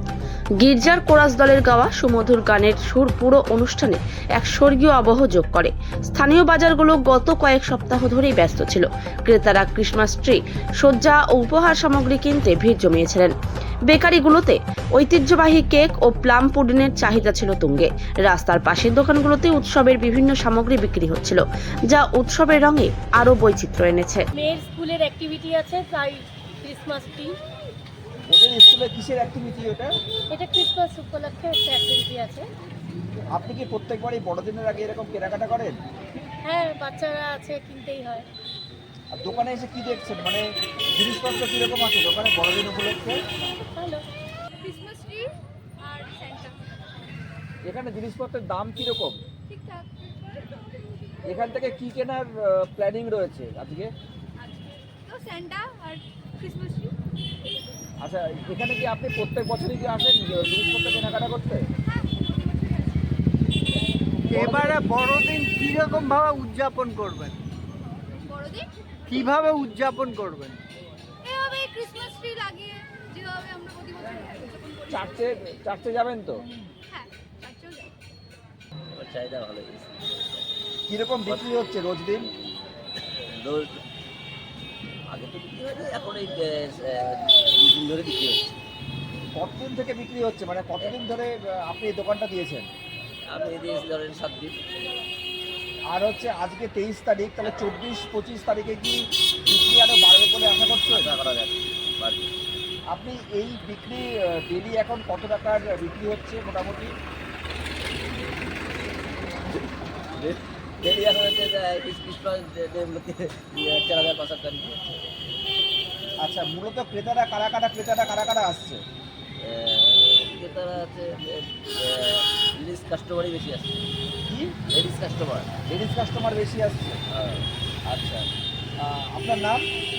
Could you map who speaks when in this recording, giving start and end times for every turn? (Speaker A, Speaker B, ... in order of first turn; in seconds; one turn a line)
Speaker A: 0.6-13.3
Speaker A: 13.9-24.2
Speaker B: 24.3-27.4
Speaker C: 28.3-29.9
Speaker B: 30.3-32.5
Speaker C: 33.3-35.8
Speaker B: 36.4-38.2
Speaker C: 39.1-43.2
Speaker B: 43.6-44.0
Speaker D: 44.6-46.9
Speaker C: 47.6-49.2
Speaker D: 49.5-50.5
Speaker C: 51.3-53.9
Speaker D: 54.4-57.0
Speaker C: 58.0-61.7
Speaker D: 61.9-63.1
Speaker E: 64.3-67.4
Speaker C: 64.3-64.7
Speaker D: 68.2-68.7
Speaker E: 69.1-70.6
Speaker D: 71.2-75.5
Speaker C: 74.9-76.4
Speaker D: 76.9-77.9
Speaker F: 78.9-80.4
Speaker C: 80.9-82.3
Speaker F: 81.3-83.8
Speaker F: 85.1-88.5
Speaker C: 89.3-92.7
Speaker F: 93.3-94.6
Speaker C: 95.9-101.1
Speaker F: 97.4-97.7
Speaker F: 100.7-102.3
Speaker C: 102.9-106.9
Speaker F: 110.1-115.0
Speaker C: 116.2-118.8
Speaker F: 119.4-123.9
Speaker C: 124.2-124.6
Speaker F: 124.7-125.6
Speaker C: 125.7-127.0
Speaker F: 127.1-127.5
Speaker C: 127.9-128.3
Speaker C: 128.8-129.7